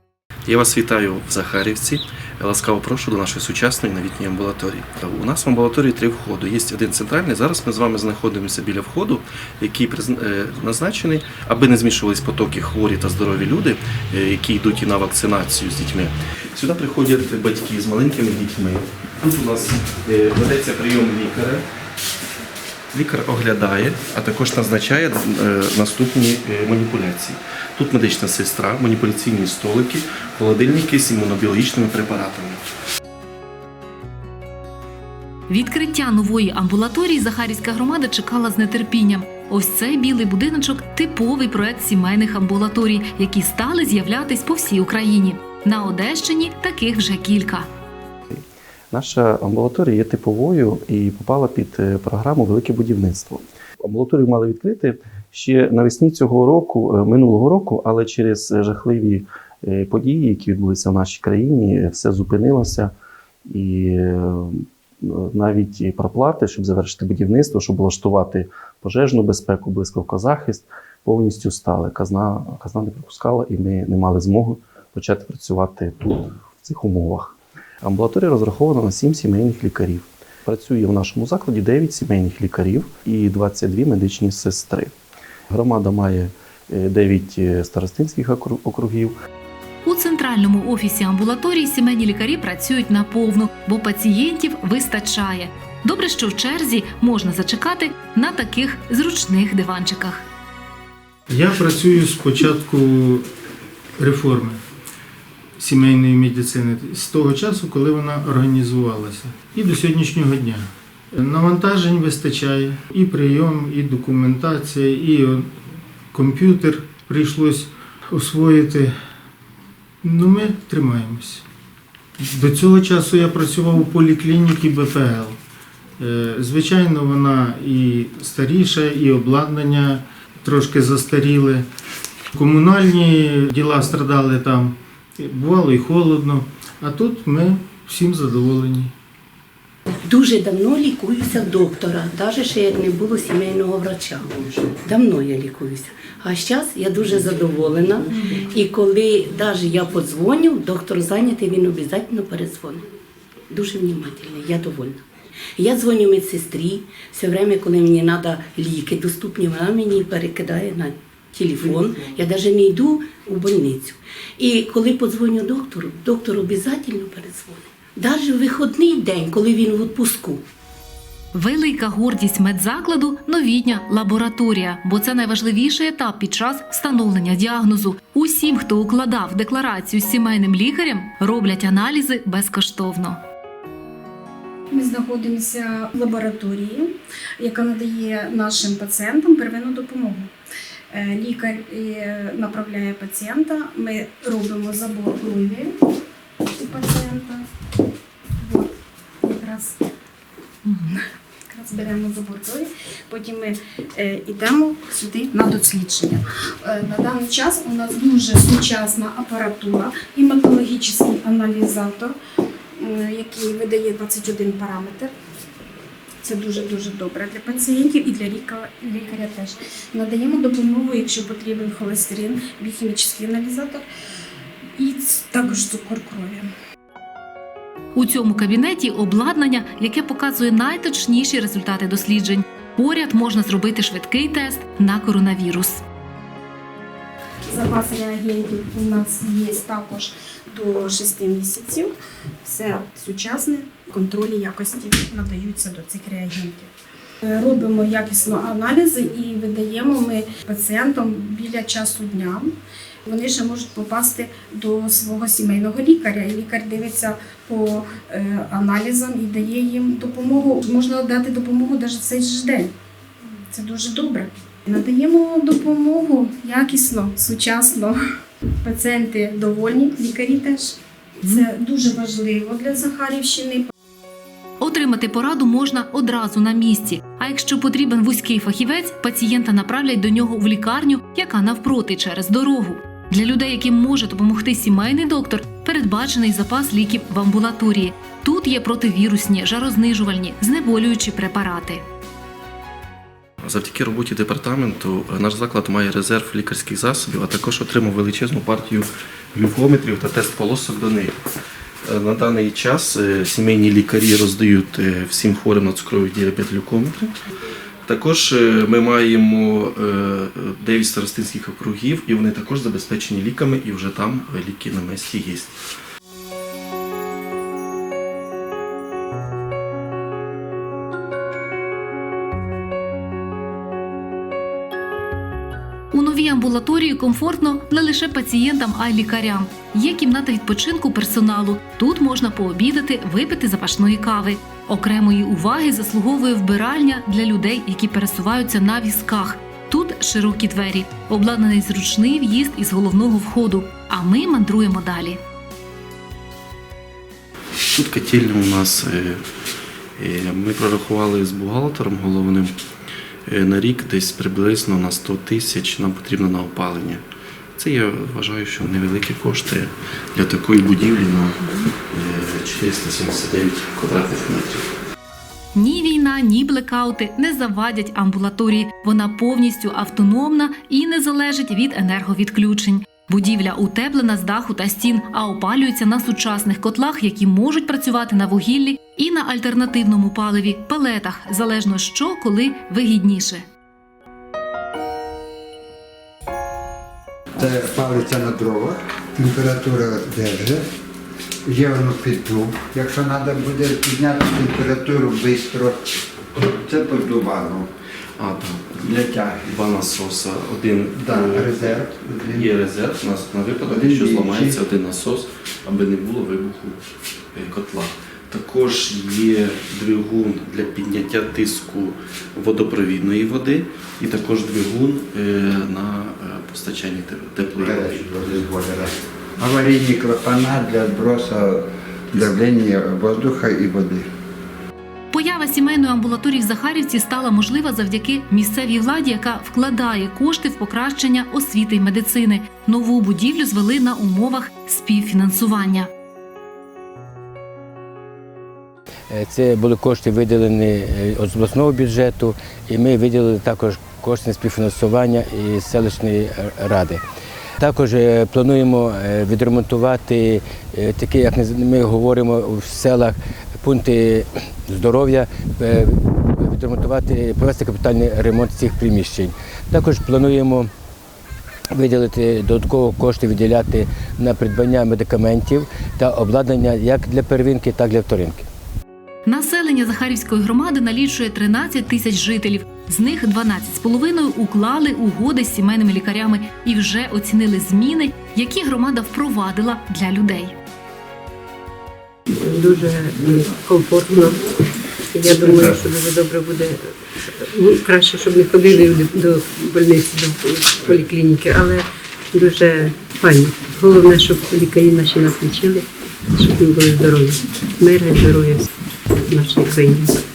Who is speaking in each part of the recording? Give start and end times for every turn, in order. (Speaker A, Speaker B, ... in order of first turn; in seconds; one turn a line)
Speaker A: 0.5-21.6
Speaker A: 22.9-32.6
Speaker B: 35.5-47.7
Speaker A: 48.3-62.9
Speaker A: 63.5-84.9
Speaker A: 85.5-89.1
Speaker B: 89.8-100.2
Speaker C: 101.3-103.3
Speaker C: 104.0-104.6
Speaker C: 105.6-115.5
Speaker C: 116.1-118.9
Speaker C: 120.0-121.4
Speaker C: 122.2-125.4
Speaker C: 126.0-131.7
Speaker C: 132.3-138.9
Speaker D: 140.0-152.8
Speaker D: 153.5-155.0
Speaker D: 155.6-170.4
Speaker B: 171.3-183.2
Speaker E: 184.7-190.3
Speaker E: 190.9-195.7
Speaker E: 196.6-197.4
Speaker E: 198.4-198.7
Speaker E: 199.2-199.8
Speaker E: 200.7-201.0
Speaker E: 201.5-212.1
Speaker E: 212.8-215.1
Speaker E: 216.2-223.8
Speaker E: 224.8-226.4
Speaker B: 227.9-235.8
Speaker E: 237.5-241.9
Speaker E: 242.4-246.7
Speaker E: 247.2-252.5
Speaker E: 253.1-262.7
Speaker E: 263.5-267.9
Speaker E: 268.6-273.7
Speaker B: 274.6-291.8
Speaker A: 293.4-301.1
Speaker A: 301.9-307.1
Speaker A: 307.9-315.6
Speaker B: 325.9-345.2
Speaker A: 347.7-349.2
Speaker A: 350.0-352.6
Speaker A: 353.3-357.0
Speaker A: 357.6-364.6
Speaker B: 365.5-383.4
Speaker F: 387.4-390.6
Speaker F: 391.4-395.8
Speaker F: 396.5-397.7
Speaker A: 398.2-406.8
Speaker F: 398.8-399.6
Speaker F: 401.0-402.5
Speaker F: 403.6-404.6
Speaker A: 407.3-418.1
Speaker F: 417.6-424.1
Speaker B: 425.1-435.9
Speaker G: 439.1-447.0
Speaker G: 447.6-460.7
Speaker G: 461.7-468.4
Speaker B: 469.2-480.5
Speaker H: 482.3-484.4
Speaker H: 485.1-486.8
Speaker H: 487.4-498.7
Speaker H: 499.2-500.2